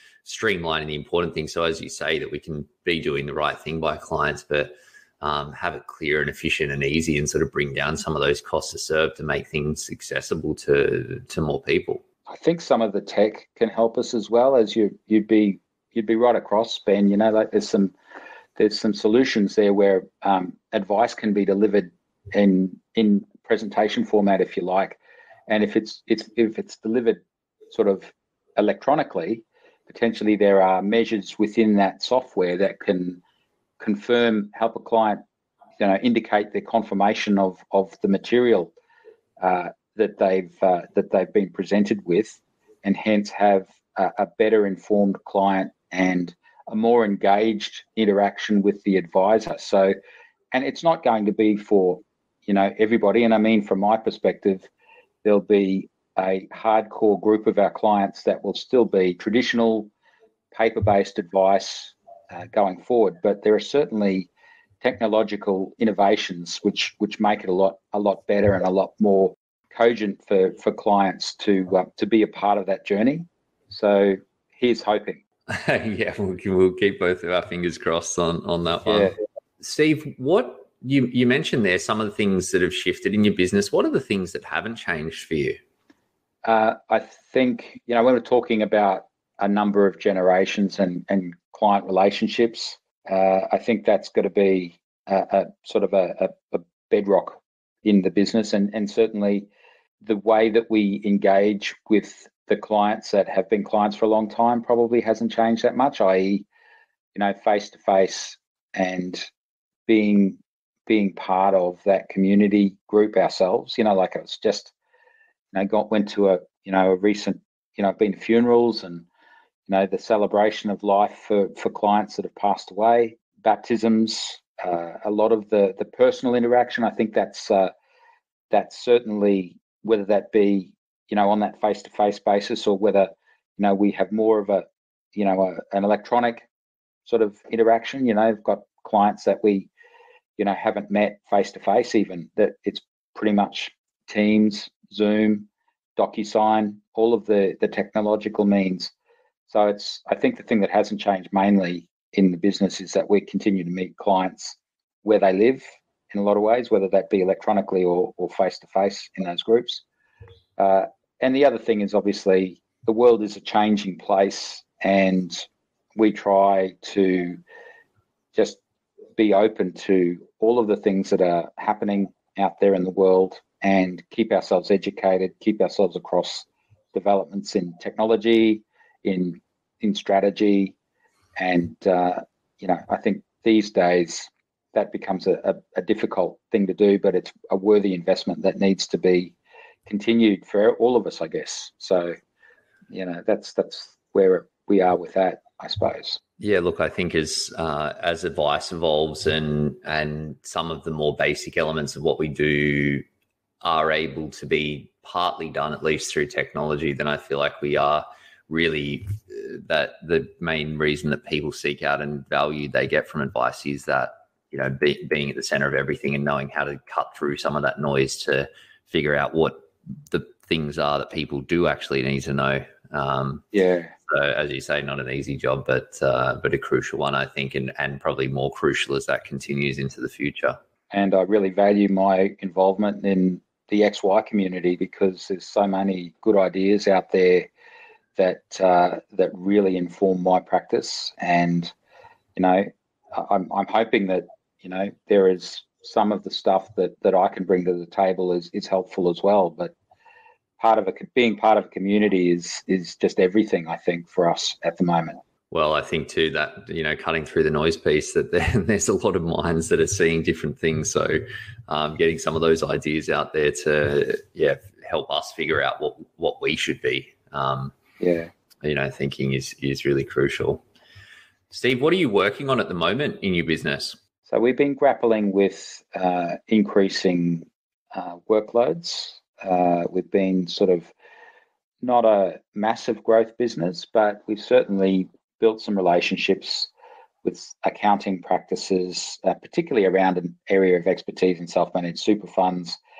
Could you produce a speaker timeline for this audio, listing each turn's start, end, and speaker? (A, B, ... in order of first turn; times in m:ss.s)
0:00.2-0:12.0 A
0:12.3-0:17.9 B
0:18.6-0:33.2 B
0:33.8-0:35.2 B
0:35.8-0:38.7 B
0:39.4-0:49.9 B
0:50.5-0:54.7 B
0:55.2-0:59.9 B
1:00.5-1:04.3 B
1:04.8-1:15.2 B
1:15.5-1:25.6 A
1:18.8-1:19.1 B
1:26.4-1:39.5 B
1:40.0-1:46.4 B
1:47.1-1:49.2 B
1:49.9-1:54.7 B
1:55.5-1:59.0 B
1:59.7-2:07.7 B
2:08.5-2:16.4 B
2:17.0-2:19.7 B
2:20.4-2:28.9 B
2:29.5-2:39.8 B
2:40.6-2:47.4 B
2:48.3-2:48.6 B
2:49.2-3:00.7 B
3:01.4-3:09.3 B
3:09.9-3:12.2 B
3:12.9-3:16.2 B
3:16.4-3:23.0 A
3:23.6-3:43.4 A
3:43.5-3:43.9 B
3:44.1-3:50.6 A
3:50.9-3:57.5 B
3:58.2-4:01.7 B
4:02.4-4:09.7 B
4:10.6-4:15.2 B
4:15.5-4:27.7 A
4:28.0-4:28.3 B
4:28.6-4:30.6 A
4:31.5-4:34.0 A
4:34.3-4:40.9 B
4:41.8-4:46.7 B
4:47.2-4:52.8 B